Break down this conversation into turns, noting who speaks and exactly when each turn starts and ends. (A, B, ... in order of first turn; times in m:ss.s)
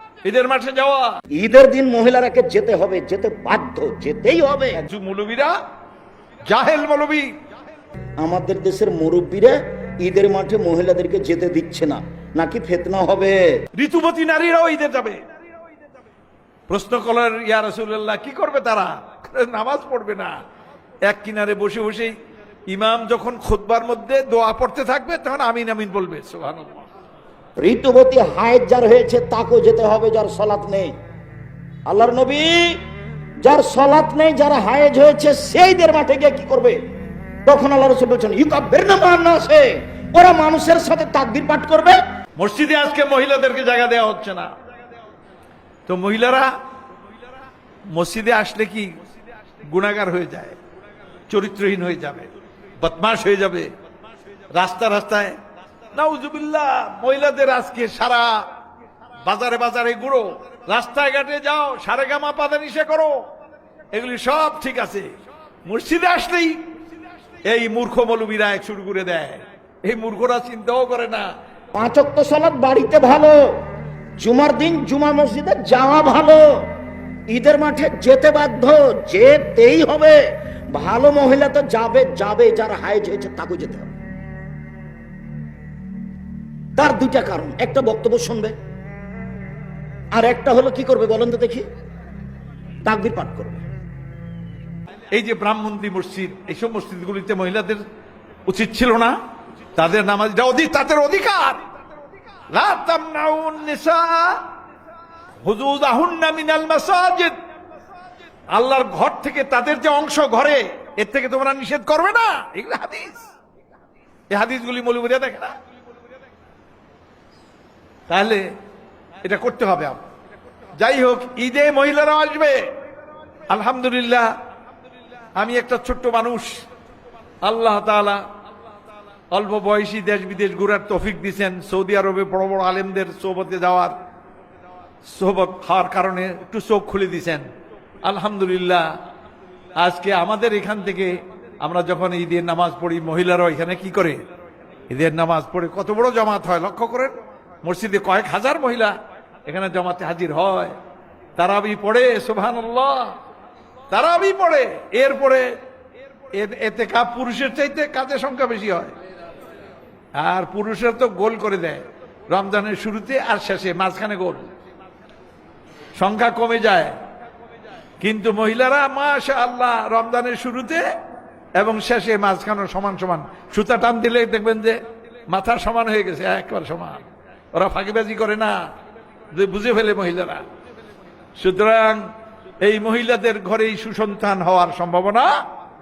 0:00.2-0:01.2 A
0:01.4-0:04.8 B
0:04.8-0:05.6 A
0:06.5-0:07.3 A
0:08.2-0:13.4 B
0:13.8-0:15.2 A
0:16.7-0:20.3 A
0:21.1-0:22.1 A
0:22.7-0:26.9 A
0:27.6-0:30.9 B
0:31.9-0:32.8 B
0:33.4-0:36.8 B
0:37.4-0:42.0 B
0:42.4-0:44.5 A
0:45.9-0:46.5 A
0:47.9-0:49.0 A
0:49.7-0:50.6 A
0:51.3-0:52.3 A
0:52.8-0:53.7 A
0:54.5-0:55.4 A
0:55.9-0:58.4 A
0:59.2-1:03.2 A
1:03.9-1:05.1 A
1:05.6-1:06.6 A
1:07.4-1:11.3 A
1:11.7-1:13.4 B
1:14.2-1:16.7 B
1:17.3-1:20.2 B
1:20.7-1:23.9 B
1:26.8-1:28.6 B
1:30.1-1:31.6 B
1:32.8-1:33.6 B
1:35.1-1:37.8 A
1:38.5-1:39.2 A
1:39.7-1:41.6 A
1:42.5-1:44.4 A
1:45.4-1:47.4 A
1:48.5-1:53.2 A
1:54.3-1:55.5 A
1:58.1-1:58.4 A
1:59.2-2:00.0 A
2:00.8-2:02.7 A
2:03.5-2:04.3 A
2:05.4-2:06.6 A
2:07.4-2:08.2 A
2:09.3-2:13.9 A
2:15.1-2:17.4 A
2:18.0-2:18.8 A
2:19.8-2:24.2 A
2:24.9-2:29.0 A
2:29.5-2:30.8 A
2:31.4-2:33.2 A
2:33.9-2:35.5 A
2:36.3-2:38.9 A
2:40.2-2:44.5 A
2:46.0-2:47.0 A
2:48.0-2:50.8 A
2:51.6-2:54.8 A
2:55.3-2:58.6 A
2:59.3-3:00.4 A
3:01.4-3:02.0 A
3:02.6-3:05.3 A